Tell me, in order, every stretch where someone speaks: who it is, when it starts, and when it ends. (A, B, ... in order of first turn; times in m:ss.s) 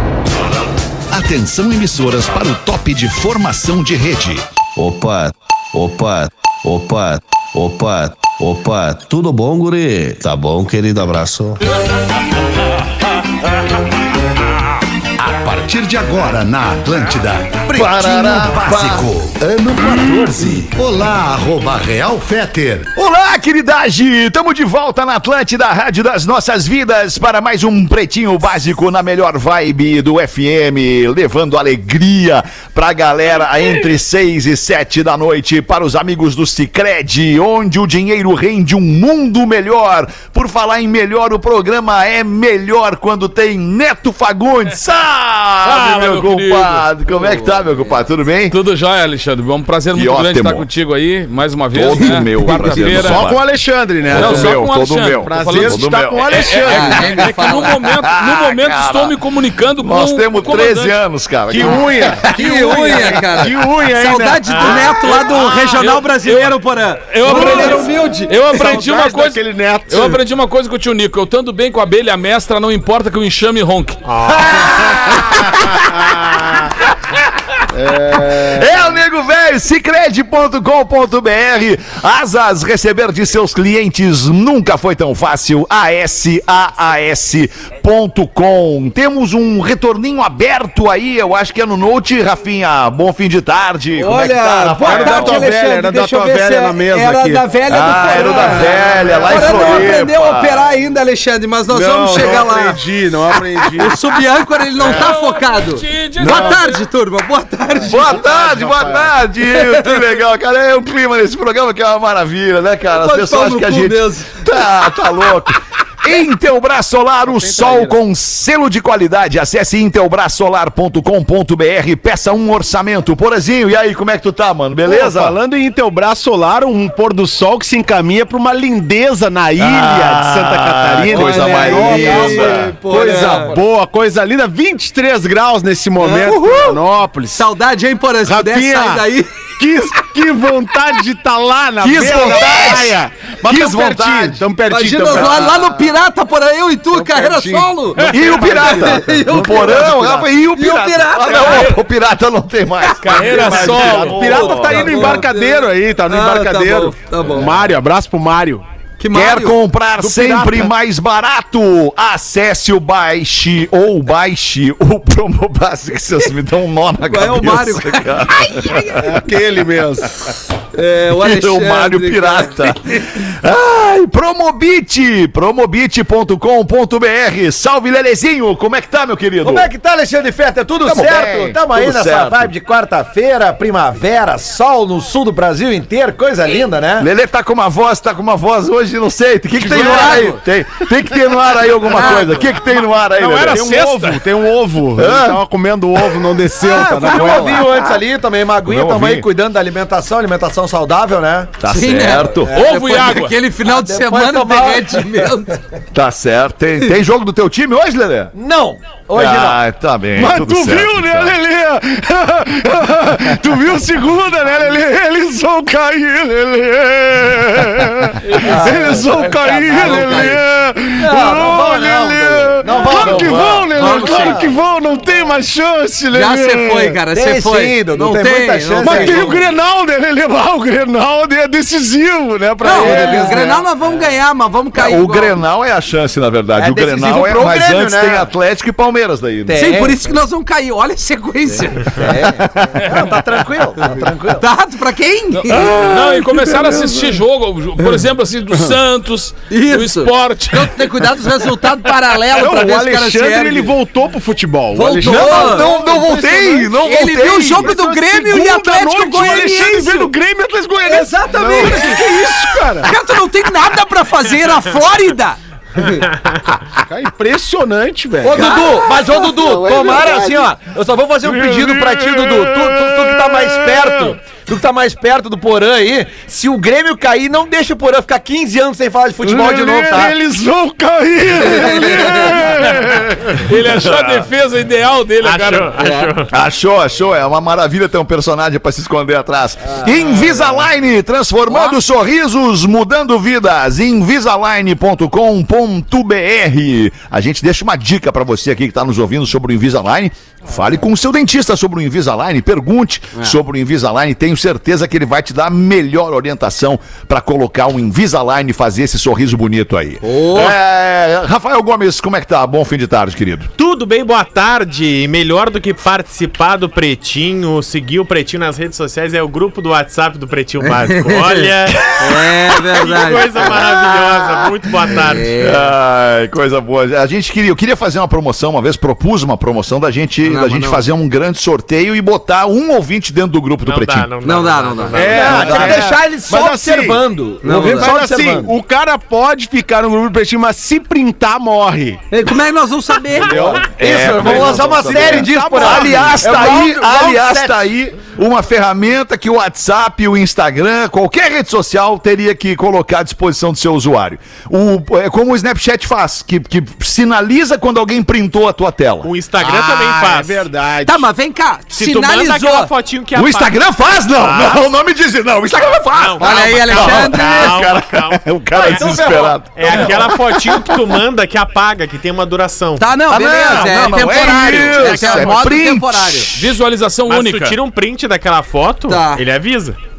0:01.1-0:04.4 A
0:04.8-0:11.6 B
0:15.2-0:22.9 C
0:17.7-0:19.1 A
0:23.0-0:48.6 A
0:45.6-0:46.9 D
0:47.1-0:48.0 E
0:48.5-0:53.3 D
0:49.9-0:50.7 A
0:51.7-0:53.4 A
0:52.6-0:54.7 F
0:54.0-0:59.2 A
0:54.1-1:01.0 D
0:55.2-0:57.3 F
0:56.6-0:57.8 E
0:59.8-1:02.3 A
1:01.5-1:04.6 F
1:02.2-1:08.8 E
1:04.5-1:04.9 G
1:04.8-1:06.6 D
1:07.1-1:14.0 D
1:07.2-1:10.2 F
1:14.0-1:14.7 G
1:14.4-1:17.2 A
1:17.7-1:18.6 F
1:18.0-1:35.4 A
1:34.0-1:42.8 E
1:34.8-1:37.5 F
1:37.7-1:40.6 A
1:38.1-1:39.9 F
1:41.7-1:44.0 F
1:43.8-1:48.2 E
1:44.8-1:46.8 D
1:46.2-1:46.6 F
1:47.9-2:05.4 A
1:47.9-1:49.1 F
1:49.5-1:49.9 E
1:52.9-1:54.4 E
1:57.4-1:57.8 E
2:04.9-2:17.5 F
2:09.6-2:13.2 A
2:11.1-2:13.6 E
2:11.5-2:13.4 H
2:16.0-2:16.8 E
2:17.3-2:19.3 E
2:18.2-2:19.0 F
2:19.6-2:25.5 F
2:21.8-2:24.4 A
2:24.7-2:31.7 E
2:26.9-2:30.1 F
2:28.0-2:28.3 D
2:28.1-2:35.2 A
2:31.3-2:31.8 D
2:33.0-2:34.4 D
2:33.1-2:37.6 E
2:33.6-2:38.6 F
2:39.0-2:39.6 E
2:39.1-2:49.2 A
2:40.0-2:40.7 F
2:47.1-2:49.0 E
2:49.0-2:50.1 F
2:50.7-2:53.0 E
2:51.1-2:59.7 A
2:59.4-3:07.1 H
3:00.8-3:02.5 A
3:07.0-3:13.7 A
3:09.6-3:10.4 E
3:09.7-3:10.3 H
3:11.9-3:12.4 E
3:13.1-3:14.3 D
3:13.4-3:17.8 F
3:15.0-3:15.4 A
3:16.7-3:22.6 H
3:17.0-3:18.0 A
3:18.6-3:19.3 A
3:21.6-3:22.6 A
3:21.7-3:25.5 E
3:22.6-3:23.4 D
3:23.6-3:25.3 H
3:25.9-3:28.3 A
3:28.3-3:29.6 H
3:29.1-3:31.4 A
3:30.2-3:47.0 F
3:38.3-3:40.3 H
3:39.6-3:40.4 E
3:41.0-3:44.5 H
3:43.0-3:44.4 E
3:46.1-3:49.4 E
3:47.1-3:49.4 H
3:48.8-3:53.6 F
3:52.6-3:55.4 E
3:52.6-3:53.6 H
3:54.8-3:59.6 A
3:56.6-3:58.3 H
3:59.5-4:00.1 H
3:59.5-4:02.0 E
4:01.5-4:04.5 H
4:02.2-4:02.9 A
4:02.8-4:03.1 D
4:04.4-4:05.7 E
4:05.4-4:11.9 D
4:05.5-4:07.2 A
4:09.5-4:13.7 E
4:12.4-4:16.8 F
4:14.7-4:15.7 E
4:15.0-4:17.8 A
4:15.2-4:15.4 H
4:16.8-4:20.1 E
4:17.6-4:22.9 F
4:20.8-4:26.0 E
4:25.8-4:26.6 G
4:26.8-4:30.4 F
4:28.2-4:40.2 H
4:28.4-4:28.7 E
4:31.2-4:34.1 F
4:39.2-4:43.2 F
4:41.5-4:42.4 E
4:42.8-4:45.9 D
4:43.8-4:44.1 A
4:45.2-4:46.4 G
4:45.8-4:46.1 E
4:46.3-5:13.5 A
4:51.5-4:51.8 E
5:10.0-5:10.6 E
5:13.6-5:25.3 G
5:20.6-5:25.6 E
5:25.4-5:34.1 A
5:30.2-5:30.8 E
5:33.6-5:35.8 G
5:34.2-5:35.0 E
5:34.9-5:42.0 F
5:35.0-5:38.5 H
5:37.4-5:37.9 E
5:42.1-5:43.6 E
5:43.3-5:47.7 H
5:43.3-5:43.6 F
5:43.6-5:59.1 A
5:44.2-5:46.5 F
5:59.0-6:00.5 G
5:59.4-6:01.1 F
6:00.9-6:02.7 E
6:01.7-6:04.7 G
6:03.1-6:10.8 A
6:05.9-6:13.0 G
6:06.2-6:07.6 E
6:08.6-6:10.1 H
6:12.8-6:16.3 E
6:13.1-6:16.4 A
6:14.0-6:15.4 G
6:16.3-6:17.6 D
6:17.1-6:19.8 G
6:18.9-6:19.2 E